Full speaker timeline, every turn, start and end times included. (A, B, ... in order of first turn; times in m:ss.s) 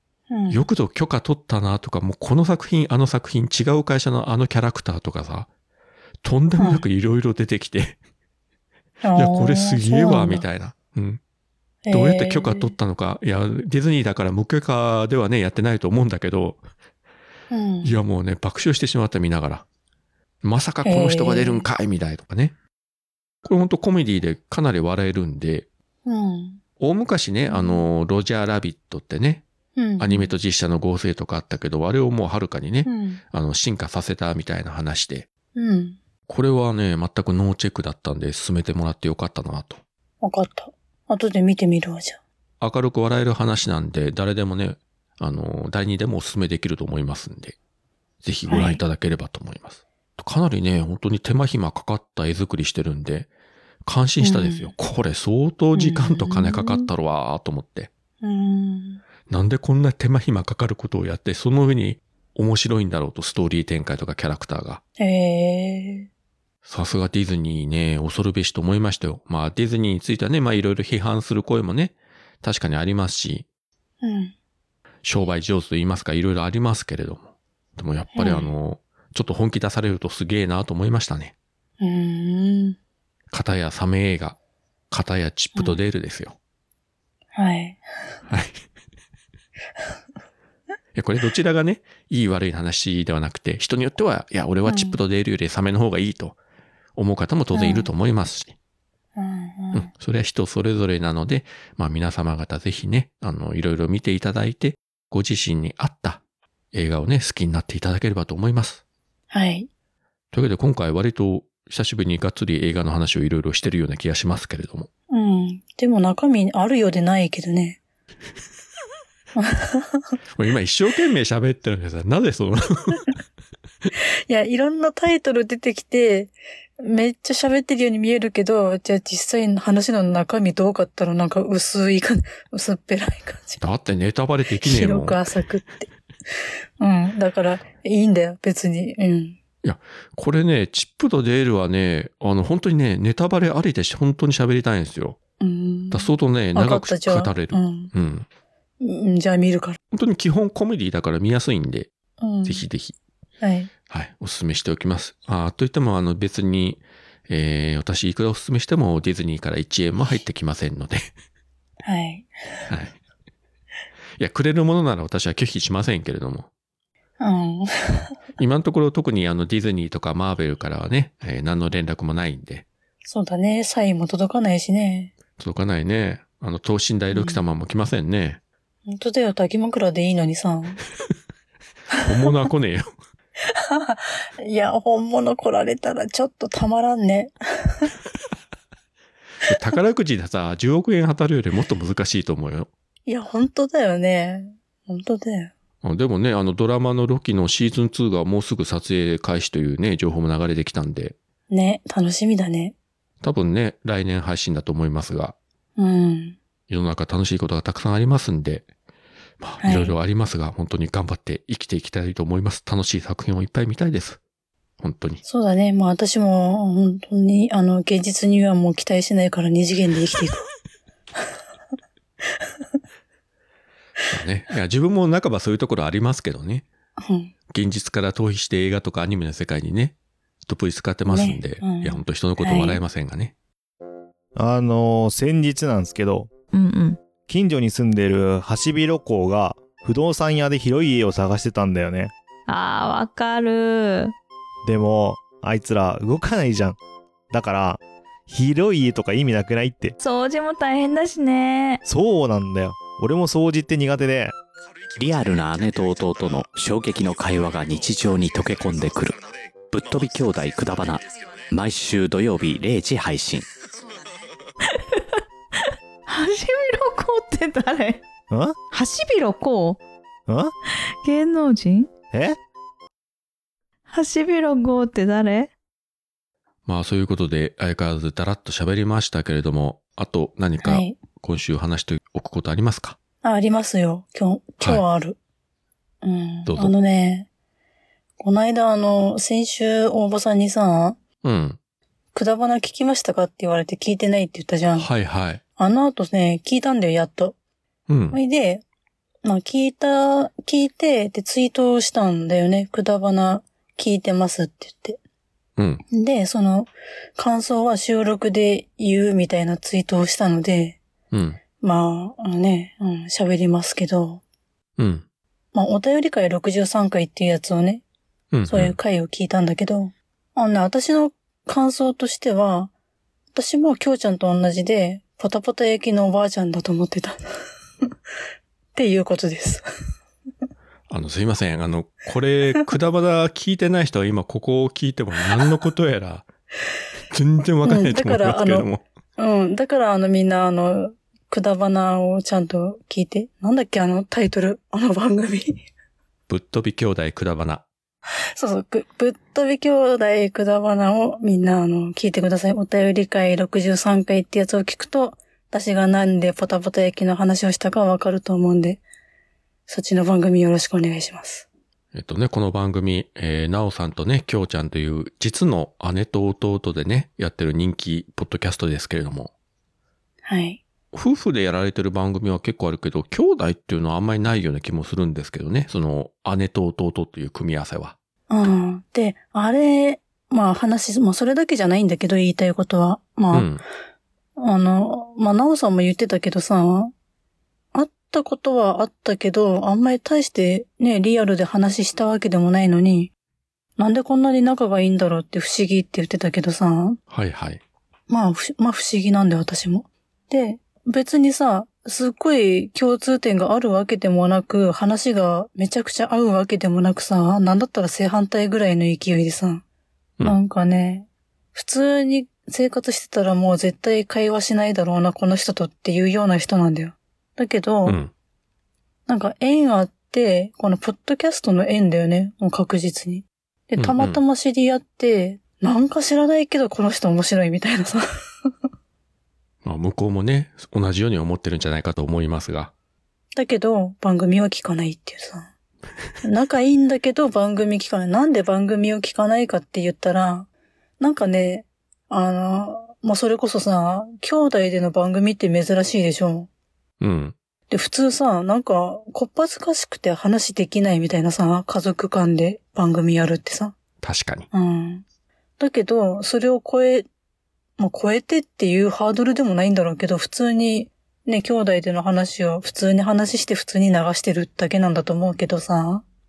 0:00.3-0:00.7 A
0:00.5-0:05.5 B
0:06.2-0:08.0 B
0:06.6-0:06.8 A
0:09.0-0:10.4 A
0:09.2-0:11.2 B
0:11.8-0:12.7 A
0:11.9-0:16.6 B
0:17.5-0:18.0 A
0:17.8-0:19.6 B
0:20.4-0:22.6 B
0:20.8-0:21.7 A
0:23.4-0:25.7 B
0:26.1-0:26.6 A
0:26.8-0:29.4 B
0:27.5-0:27.9 A
0:29.8-0:30.3 A
0:30.0-0:35.3 B
0:32.8-0:33.2 A
0:35.6-0:36.0 A
0:36.3-0:39.8 B
0:40.2-0:42.2 A
0:42.6-0:47.6 B
0:48.2-0:53.3 B
0:48.5-0:48.8 A
0:53.8-0:57.9 B
0:54.2-0:54.7 A
0:55.8-0:56.9 A
0:58.2-0:59.0 A
0:59.3-1:04.8 B
1:05.0-1:06.1 A
1:06.6-1:13.5 B
1:14.0-1:14.3 A
1:15.0-1:21.3 B
1:18.1-1:18.5 A
1:21.8-1:22.8 A
1:23.3-1:24.4 B
1:24.9-1:26.4 B
1:25.6-1:25.8 A
1:27.3-1:27.8 A
1:28.3-1:28.6 B
1:31.0-1:36.4 B
1:34.7-1:35.0 A
1:37.0-1:38.6 B
1:37.5-1:37.9 A
1:39.2-1:39.9 A
1:39.7-1:46.2 B
1:46.7-1:48.8 B
1:49.3-1:49.7 A
1:50.3-1:54.9 B
1:55.1-1:57.8 A
1:59.4-2:00.1 A
2:00.4-2:03.0 B
2:04.3-2:13.6 A
2:13.6-2:15.2 B
2:14.6-2:15.9 A
2:16.8-2:19.4 A
2:19.6-2:25.2 B
2:25.4-2:27.9 A
2:25.9-2:28.3 B
2:28.8-2:29.8 A
2:29.9-2:31.9 B
2:32.2-2:32.6 A
2:32.4-2:33.0 B
2:33.4-2:33.7 A
2:33.9-2:41.1 B
2:41.8-2:42.3 A
2:42.7-2:43.0 B
2:44.2-2:46.5 B
2:47.2-2:48.1 A
2:48.4-2:52.7 B
2:53.0-2:55.1 A
2:55.4-2:58.4 B
2:57.1-2:57.4 A
2:58.9-3:00.8 A
3:02.0-3:02.9 B
3:03.6-3:07.9 A
3:09.4-3:12.7 B
3:13.1-3:15.5 A
3:15.8-3:21.2 B
3:21.5-3:22.8 A
3:23.2-3:25.4 B
3:25.8-3:26.4 A
3:26.7-3:28.7 B
3:29.4-3:34.2 B
3:29.6-3:30.0 A
3:34.8-3:35.2 B
3:35.3-3:40.4 A
3:44.1-3:46.7 B
3:47.0-3:47.3 A
3:47.5-3:50.0 B
3:50.5-3:53.3 B
3:51.1-3:52.8 A
3:54.4-3:56.3 C
3:56.5-3:57.0 D
3:57.3-4:02.1 C
4:02.5-4:04.2 D
4:04.6-4:06.8 C
4:07.3-4:10.0 C
4:10.0-4:11.8 D
4:11.9-4:14.4 C
4:15.0-4:23.5 E
4:24.7-4:28.1 D
4:28.3-4:28.6 C
4:28.6-4:29.8 D
4:30.3-4:30.5 C
4:31.0-4:31.9 D
4:32.1-4:32.4 C
4:33.9-4:35.5 D
4:36.7-4:43.0 B
4:40.6-4:41.0 A
4:43.2-4:45.2 A
4:46.0-4:47.3 A
4:46.5-4:46.7 B
4:48.2-4:51.0 A
4:51.2-4:51.6 B
4:52.1-4:54.9 A
4:54.8-4:55.4 B
4:55.6-4:57.4 A
4:57.9-4:58.2 B
4:58.1-4:58.6 A
4:59.2-5:05.0 A
5:05.6-5:05.8 B
5:05.9-5:10.8 A
5:11.1-5:11.4 B
5:11.6-5:14.2 A
5:14.8-5:15.0 B
5:15.5-5:17.8 A
5:18.3-5:18.8 B
5:18.5-5:22.7 A
5:23.3-5:27.2 A
5:28.8-5:29.6 A
5:30.9-5:36.3 B
5:37.1-5:38.8 B
5:37.6-5:45.6 A
5:46.3-5:47.6 B
5:48.4-5:58.8 A
5:59.7-6:01.5 A
6:01.9-6:09.3 B
6:10.2-6:10.6 A
6:10.9-6:18.0 B
6:18.3-6:23.5 A
6:23.3-6:23.6 B
6:24.4-6:26.9 A
6:27.7-6:33.1 A
6:33.8-6:37.0 A
6:37.1-6:37.6 B
6:38.1-6:49.6 A
6:50.2-6:58.0 A
6:57.9-6:58.1 B
6:59.1-7:08.0 A
7:03.8-7:04.2 B
7:09.6-7:12.7 B
7:13.4-7:15.5 A
7:16.2-7:20.5 A
7:21.0-7:26.5 A
7:27.0-7:27.4 B
7:27.7-7:33.7 A
7:34.0-7:34.5 B
7:34.5-7:35.0 A
7:35.6-7:37.1 A
7:37.8-7:46.0 A